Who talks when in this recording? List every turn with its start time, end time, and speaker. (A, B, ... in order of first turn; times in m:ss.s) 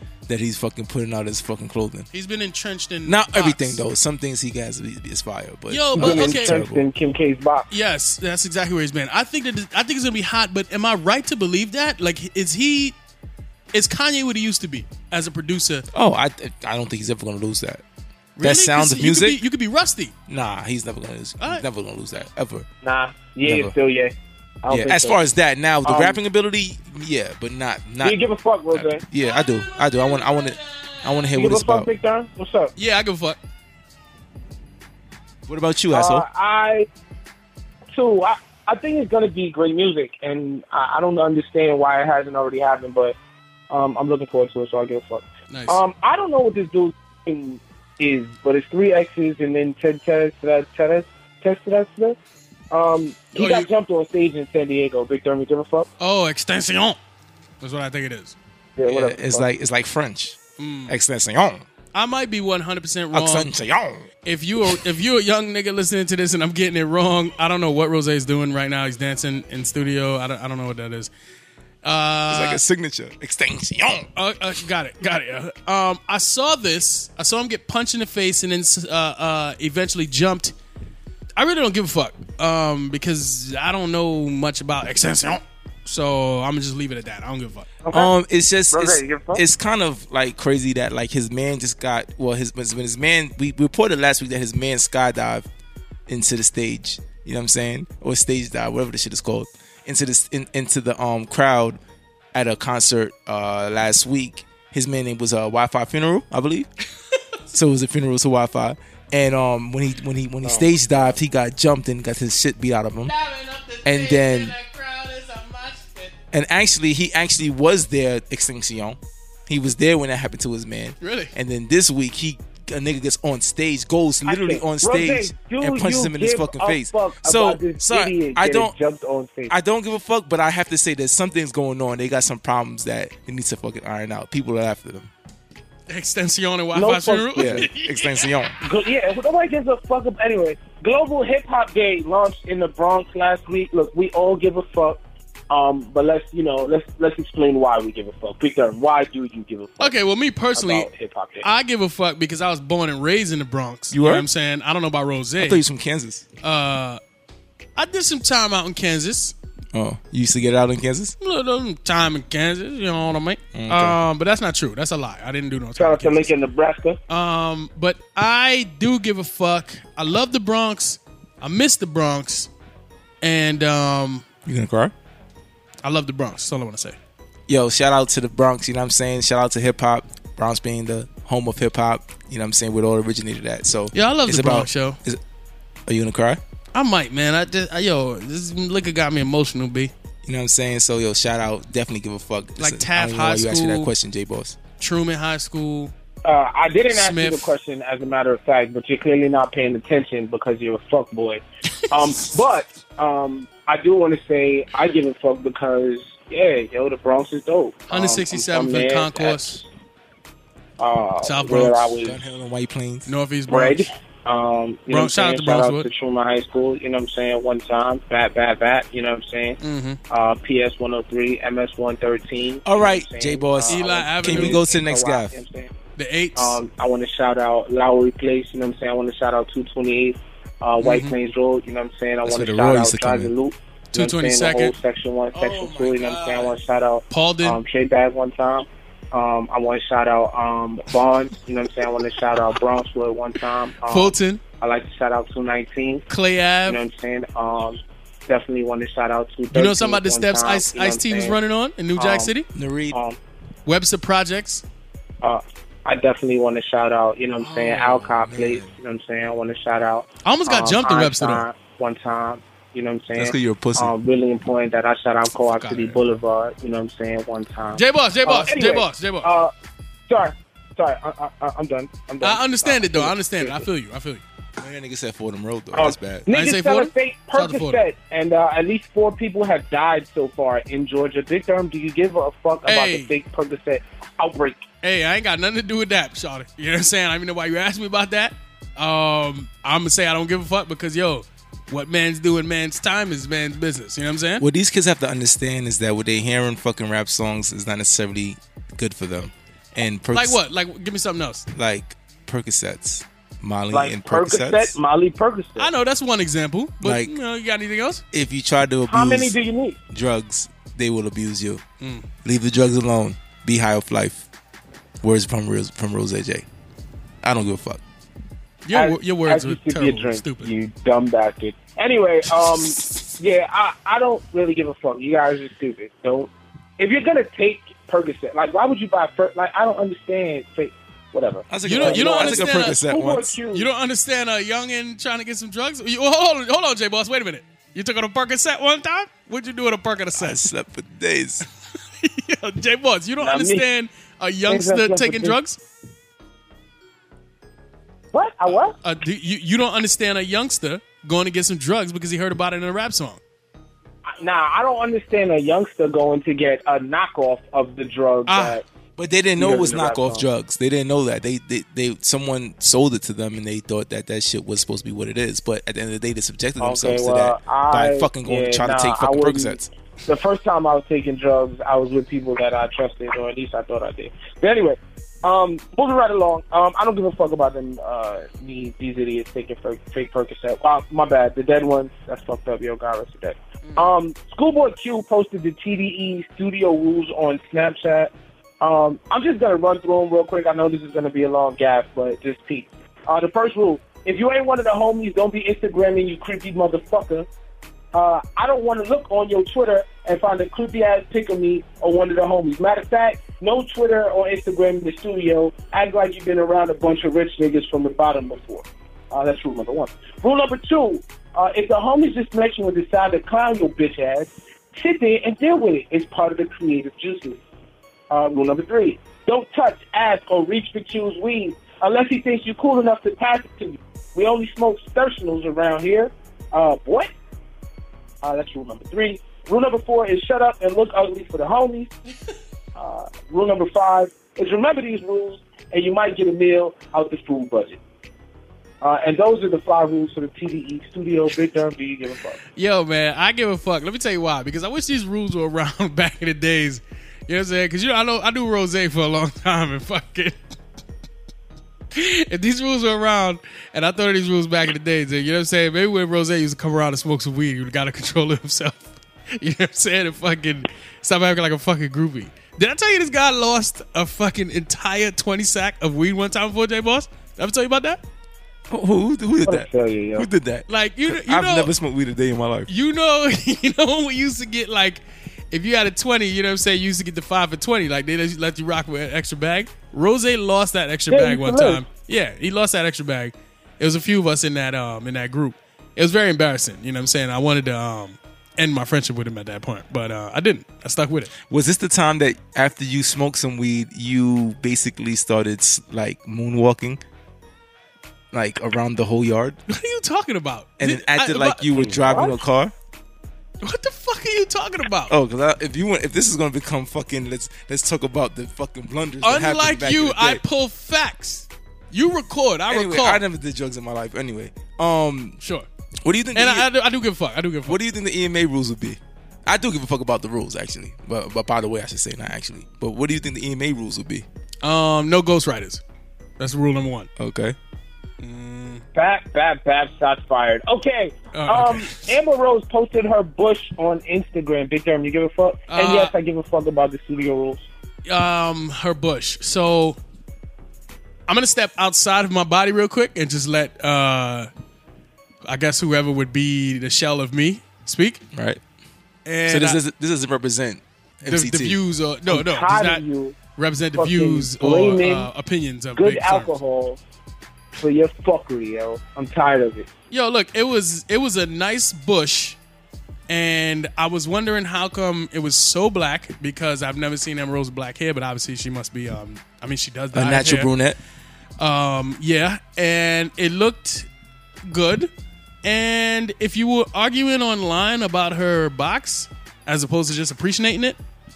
0:00.3-0:02.1 A
0:02.1-0:03.8 B
0:03.0-0:06.8 A
0:05.7-0:06.6 B
0:05.9-0:07.7 C
0:07.7-0:13.0 B
0:13.7-0:15.8 B
0:15.9-0:17.8 A
0:18.4-0:20.1 B
0:18.4-0:19.4 A
0:20.3-0:22.6 A
0:22.8-0:25.2 C
0:23.4-0:23.7 A
0:24.7-0:28.2 A
0:25.8-0:26.2 C
0:28.0-0:29.0 C
0:28.7-0:31.9 A
0:29.2-0:31.3 B
0:31.3-0:32.7 C
0:32.8-0:33.4 B
0:35.5-0:36.2 A
0:35.9-0:36.9 C
0:37.9-0:43.2 C
0:43.7-0:52.2 C
0:45.5-0:45.8 B
0:52.7-0:55.9 C
0:53.3-0:53.7 B
0:56.0-0:57.0 B
0:57.6-0:58.4 B
0:58.8-0:59.5 C
0:58.8-1:01.6 A
1:00.6-1:01.0 B
1:01.9-1:03.5 B
1:03.1-1:04.1 A
1:04.2-1:11.1 B
1:11.8-1:12.6 B
1:12.3-1:14.1 A
1:14.2-1:20.5 B
1:21.4-1:27.7 B
1:27.8-1:28.1 C
1:27.9-1:35.5 A
1:28.7-1:29.4 C
1:36.1-1:41.8 A
1:42.3-1:46.7 A
1:47.5-1:53.1 A
1:50.4-1:51.2 C
1:53.0-1:56.1 B
1:53.8-1:54.5 A
1:56.3-2:08.7 A
2:01.0-2:01.3 B
2:04.2-2:09.5 C
2:09.5-2:15.1 A
2:15.9-2:18.3 B
2:16.7-2:17.7 C
2:17.4-2:18.6 A
2:18.6-2:25.0 C
2:25.5-2:30.0 C
2:29.8-2:30.9 B
2:30.5-2:31.5 C
2:31.4-2:35.6 B
2:33.9-2:34.3 A
2:35.4-2:36.2 A
2:36.4-2:37.0 B
2:37.8-2:39.3 B
2:39.7-2:41.2 A
2:41.2-2:46.3 B
2:43.5-2:44.0 A
2:45.8-2:47.0 C
2:47.1-2:52.5 B
2:53.2-2:54.2 B
2:54.4-2:54.9 A
2:55.8-2:57.0 B
2:57.5-3:05.2 A
3:03.9-3:05.0 B
3:05.9-3:06.4 A
3:06.7-3:09.9 B
3:10.2-3:14.6 A
3:12.6-3:13.9 B
3:14.8-3:15.9 B
3:16.2-3:29.7 C
3:16.9-3:17.5 B
3:27.9-3:29.6 B
3:30.8-3:32.2 C
3:31.2-3:31.9 B
3:32.0-3:33.1 A
3:33.0-3:33.9 B
3:33.5-3:39.6 C
3:34.9-3:35.9 B
3:39.6-3:40.0 B
3:40.1-3:45.7 C
3:42.6-3:45.4 A
3:43.7-3:44.6 B
3:46.0-3:46.6 B
3:46.4-4:06.0 C
3:50.8-3:51.1 B
3:52.2-3:53.3 A
3:53.9-3:54.7 B
3:55.3-3:56.5 A
3:57.1-3:57.6 B
4:03.9-4:04.4 B
4:06.1-4:06.8 B
4:06.6-4:11.4 C
4:09.5-4:12.5 B
4:12.0-4:12.3 C
4:12.5-4:13.0 A
4:12.9-4:13.2 C
4:13.6-4:14.6 B
4:15.2-4:29.5 C
4:17.4-4:18.7 A
4:20.2-4:21.5 B
4:23.2-4:23.9 A
4:25.5-4:26.0 B
4:27.7-4:29.3 B
4:30.1-4:33.6 C
4:32.2-4:34.2 B
4:34.6-4:36.3 A
4:35.7-4:44.6 C
4:36.3-4:37.8 B
4:42.6-4:43.1 B
4:44.8-4:54.4 B
4:54.4-5:00.4 A
5:00.1-5:01.5 B
5:01.5-5:04.8 A
5:03.7-5:05.7 C
5:05.6-5:08.0 B
5:06.8-5:07.1 A
5:08.1-5:09.3 A
5:08.9-5:09.8 C
5:09.9-5:11.6 A
5:11.8-5:12.1 B
5:12.2-5:14.2 A
5:15.0-5:16.4 A
5:17.2-5:17.8 A
5:18.6-5:20.5 B
5:18.7-5:33.7 C
5:31.5-5:33.4 A
5:31.6-5:32.8 B
5:33.5-5:40.4 B
5:40.2-5:41.4 A
5:42.0-5:45.6 B
5:43.2-5:43.6 C
5:44.5-5:45.4 C
5:48.1-5:48.8 C
5:48.8-5:53.2 B
5:54.1-5:58.6 C
5:58.3-5:58.6 B
5:59.0-6:09.7 A
5:59.4-6:00.2 C
6:06.6-6:37.3 C
6:23.6-6:23.9 B
6:37.9-6:57.4 C
6:58.1-7:07.1 C
7:08.2-7:11.9 C
7:12.7-7:17.8 C
7:18.8-7:22.4 C
7:22.6-7:30.4 B
7:31.9-7:48.0 B
7:48.7-7:52.7 A
7:49.4-7:50.3 C
7:50.7-7:51.7 B
7:52.7-8:11.3 B
8:01.1-8:01.8 C
8:11.5-8:17.0 A
8:18.3-8:19.6 A
8:19.7-8:22.3 B
8:20.8-8:22.7 A
8:22.1-8:22.4 C
8:23.6-8:25.1 B
8:25.1-8:30.4 A
8:29.2-8:33.2 B
8:32.7-8:35.4 A
8:35.4-8:35.7 B
8:36.0-8:36.7 A
8:36.3-8:37.8 B
8:37.6-8:44.2 A
8:44.6-8:45.8 B
8:46.4-8:47.1 B
8:47.2-8:47.6 A
8:48.2-8:48.8 B
8:48.9-8:57.6 C
8:51.3-8:52.0 B
8:55.7-8:56.1 B
8:58.0-9:00.0 B
9:01.3-9:04.5 B
9:05.4-9:08.2 B
9:08.3-9:08.6 A
9:09.2-9:09.8 B
9:09.5-9:11.8 A
9:11.2-9:13.0 B
9:12.3-9:13.4 C
9:13.6-9:16.5 B
9:14.0-9:15.3 C
9:16.0-9:17.0 C
9:17.8-9:19.9 C
9:20.1-9:22.6 B
9:23.3-9:30.7 B
9:30.1-9:31.0 A
9:31.6-9:34.1 B
9:34.6-9:35.1 B
9:35.6-9:41.0 B